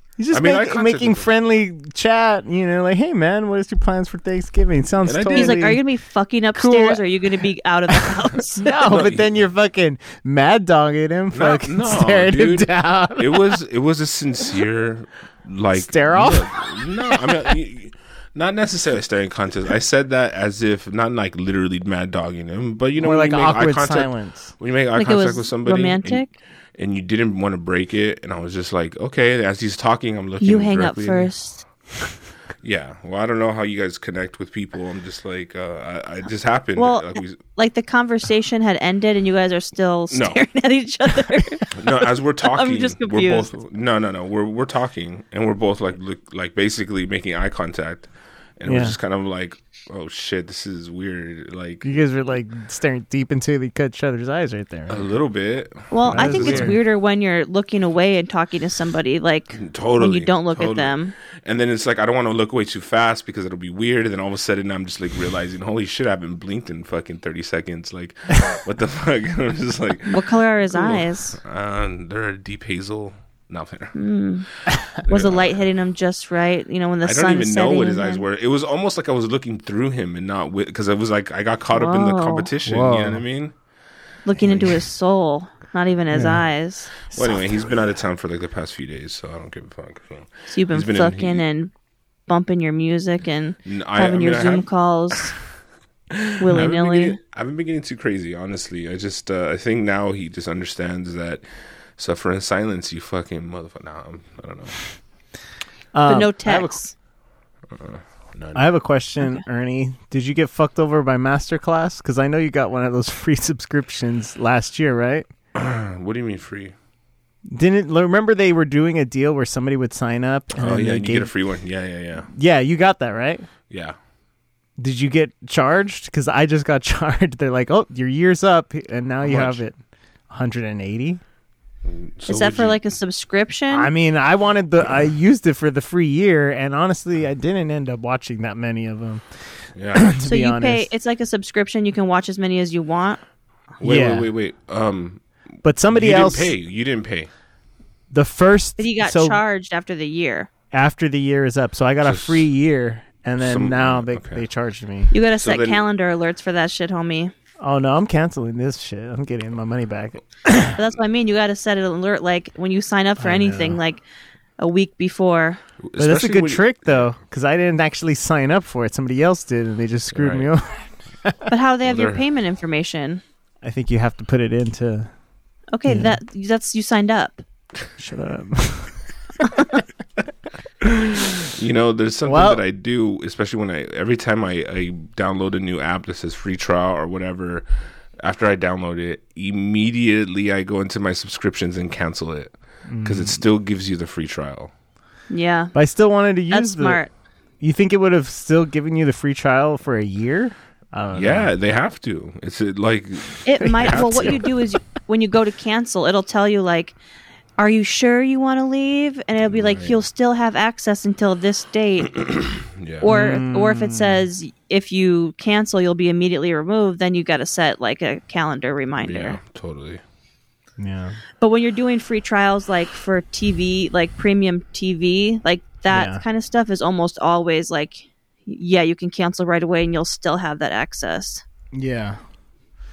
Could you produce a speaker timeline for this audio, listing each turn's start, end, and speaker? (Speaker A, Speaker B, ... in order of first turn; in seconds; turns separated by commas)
Speaker A: 0.2-5.8, Speaker B: 0.3-1.3, Speaker B: 5.0-5.8, Speaker C: 5.3-8.6, Speaker A: 6.5-7.0, Speaker A: 8.6-13.6, Speaker B: 8.6-9.3, Speaker B: 11.3-31.3, Speaker A: 15.8-17.4, Speaker A: 23.0-24.5, Speaker C: 24.9-26.3, Speaker C: 30.4-31.6, Speaker B: 32.6-37.4, Speaker C: 36.8-41.8, Speaker B: 40.1-40.4, Speaker B: 41.7-51.9, Speaker C: 42.5-43.5, Speaker A: 48.6-49.0, Speaker A: 51.8-55.0, Speaker B: 54.9-56.8, Speaker C: 55.9-61.1, Speaker A: 56.1-56.8, Speaker B: 59.5-74.0, Speaker C: 70.1-71.4, Speaker C: 73.9-74.5, Speaker B: 75.0-75.7, Speaker C: 75.0-78.2, Speaker B: 77.0-83.5, Speaker C: 81.7-82.5, Speaker A: 82.7-83.2, Speaker C: 84.2-87.1, Speaker B: 84.4-84.8, Speaker A: 86.1-86.4, Speaker B: 87.1-91.4, Speaker C: 90.5-91.7, Speaker C: 92.3-95.3, Speaker B: 93.6-95.3, Speaker B: 96.1-101.4, Speaker C: 96.4-97.2, Speaker B: 102.0-104.9, Speaker A: 105.9-106.8, Speaker C: 106.0-106.9, Speaker B: 107.7-108.7, Speaker A: 108.5-115.3, Speaker B: 115.5-116.7, Speaker A: 117.5-121.3, Speaker B: 120.5-122.3, Speaker A: 122.3-123.5, Speaker B: 123.7-124.0, Speaker A: 124.8-129.8, Speaker B: 129.2-129.6, Speaker A: 130.3-131.2, Speaker B: 131.8-133.0, Speaker C: 132.2-133.9, Speaker A: 133.7-139.2, Speaker B: 139.8-140.2, Speaker A: 139.9-140.9, Speaker C: 140.2-143.2, Speaker B: 143.8-145.2, Speaker A: 143.8-144.3, Speaker A: 145.6-146.5, Speaker B: 145.9-147.3, Speaker A: 148.1-149.4, Speaker C: 148.8-150.5, Speaker A: 150.7-155.1, Speaker B: 152.0-152.5, Speaker B: 153.4-154.4, Speaker C: 155.1-157.3, Speaker B: 155.4-155.8, Speaker A: 157.6-160.8, Speaker C: 160.7-164.0, Speaker A: 163.2-163.8, Speaker C: 164.6-165.6, Speaker B: 165.8-167.1, Speaker A: 166.0-171.5, Speaker B: 170.1-170.5, Speaker C: 171.5-173.2, Speaker B: 171.8-172.2, Speaker A: 173.6-175.1, Speaker C: 175.7-177.4, Speaker A: 175.8-176.2, Speaker A: 178.0-179.0, Speaker B: 180.8-187.6, Speaker A: 182.2-182.6, Speaker B: 188.2-194.7, Speaker A: 192.9-193.4, Speaker C: 195.3-195.7, Speaker A: 195.7-197.0, Speaker C: 196.5-197.1, Speaker A: 197.6-201.5, Speaker B: 201.1-204.4, Speaker C: 203.4-206.9, Speaker A: 203.6-204.4, Speaker C: 207.6-212.3, Speaker B: 209.5-210.0, Speaker B: 212.5-213.1, Speaker C: 213.0-219.4, Speaker A: 213.1-214.2, Speaker B: 219.0-220.0, Speaker A: 220.8-221.2, Speaker C: 221.4-231.4, Speaker A: 225.9-226.2, Speaker A: 231.7-232.2